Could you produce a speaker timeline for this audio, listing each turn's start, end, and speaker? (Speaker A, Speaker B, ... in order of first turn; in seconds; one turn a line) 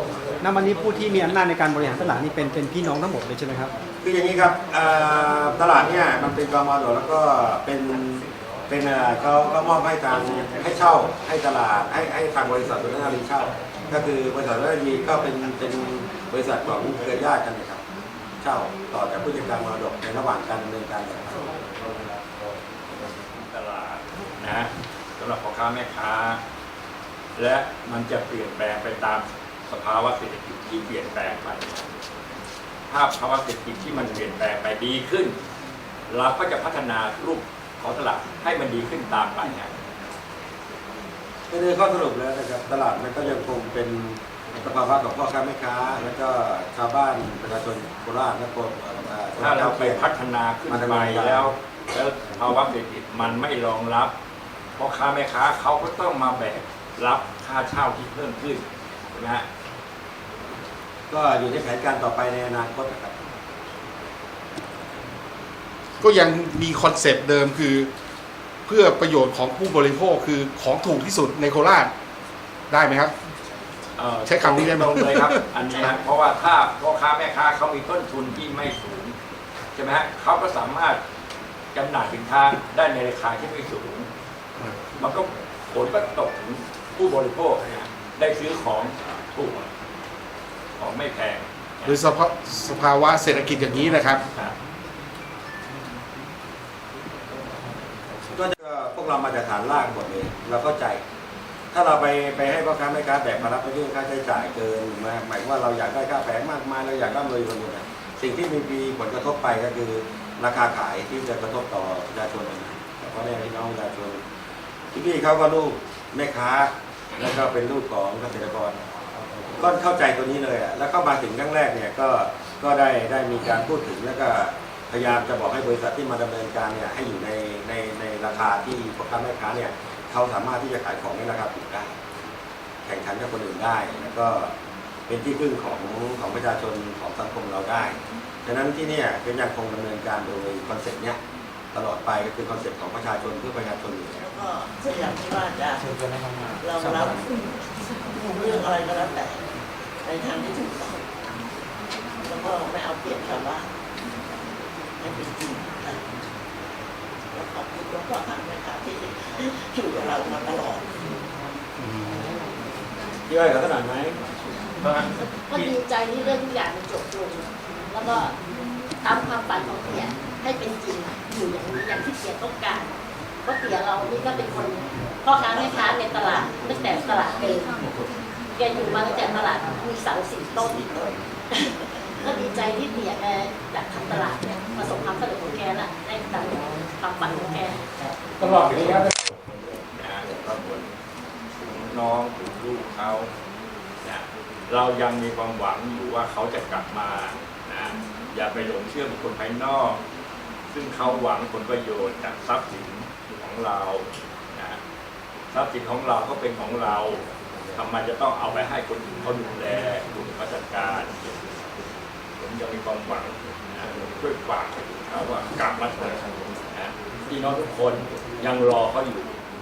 Speaker A: 0.4-3.7
Speaker B: 4.0-17.8
Speaker B: 18.4-21.4
Speaker C: 23.4-26.4
Speaker C: 27.4-31.9
Speaker C: 32.9-35.4
Speaker C: 36.1-39.7
Speaker B: 41.5-50.1
Speaker C: 49.4-54.1
Speaker B: 50.7-51.5
Speaker C: 54.8-59.5
Speaker B: 61.1-63.1
Speaker D: 66.0-67.9
Speaker D: 68.7-71.9
Speaker D: 72.7-73.1
Speaker C: 74.0-79.2
Speaker D: 74.2-75.4
Speaker E: 75.6-76.0
Speaker C: 79.8-81.0
Speaker C: 81.7-84.1
Speaker C: 85.0-89.7
Speaker C: 90.8-92.0
Speaker D: 91.8-94.2
Speaker B: 98.3-101.0
Speaker B: 101.7-114.2
Speaker B: 114.9-118.8
Speaker B: 119.5-132.0
Speaker B: 132.8-134.5
Speaker B: 135.1-141.2
Speaker B: 141.7-144.3
Speaker F: 144.2-145.9
Speaker F: 146.6-147.5
Speaker F: 148.1-149.4
Speaker F: 150.0-151.1
Speaker F: 152.2-153.7
Speaker F: 155.0-156.0
Speaker F: 157.3-160.9
Speaker B: 163.3-164.2
Speaker E: 165.2-168.3
Speaker E: 169.0-172.9
Speaker E: 173.4-177.7
Speaker F: 175.5-176.6
Speaker E: 178.5-180.9
Speaker F: 178.8-179.3
Speaker F: 180.8-181.2
Speaker F: 181.7-182.3
Speaker E: 182.2-187.8
Speaker C: 188.4-190.9
Speaker C: 191.6-193.3
Speaker C: 194.0-200.0
Speaker C: 200.7-204.8
Speaker C: 205.5-207.2
Speaker C: 207.8-211.4
Speaker C: 212.4-219.3